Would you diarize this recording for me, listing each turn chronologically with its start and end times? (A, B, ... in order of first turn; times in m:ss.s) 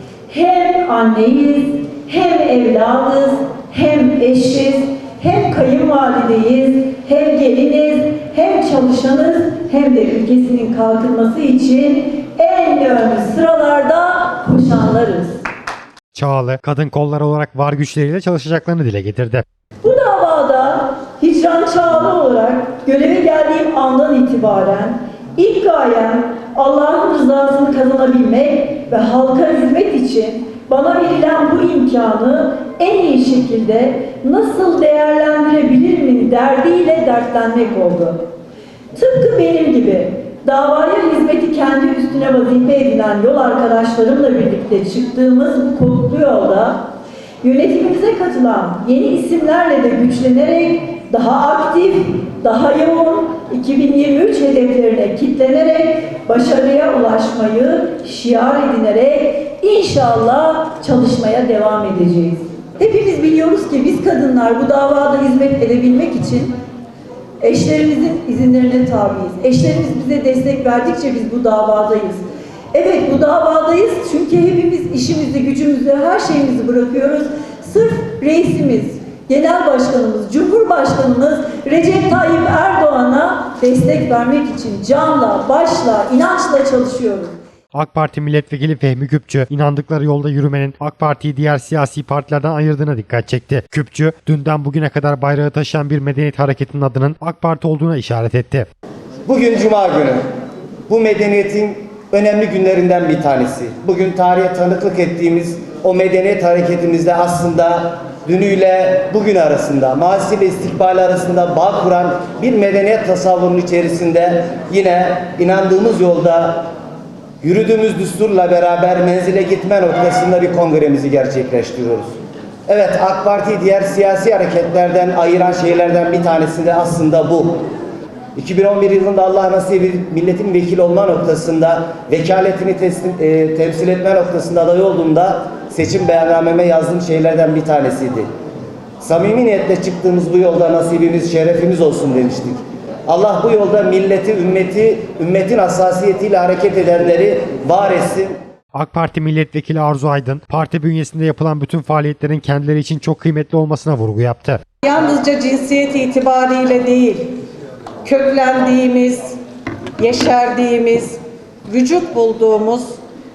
0:00.3-0:15.4 A
0:16.1-0:19.4 B
0:19.8-0:38.2 A
0:38.9-0:46.8 A
0:47.4-1:06.5 A
1:07.4-1:27.3 A
1:27.7-1:38.7 B
1:39.2-1:40.2 C
1:40.9-1:56.7 C
1:57.4-2:07.6 C
2:08.3-2:18.3 C
2:19.0-2:28.4 C
2:28.7-2:34.6 B
2:34.8-2:37.4 D
2:38.0-2:39.4 D
2:40.0-2:43.0 D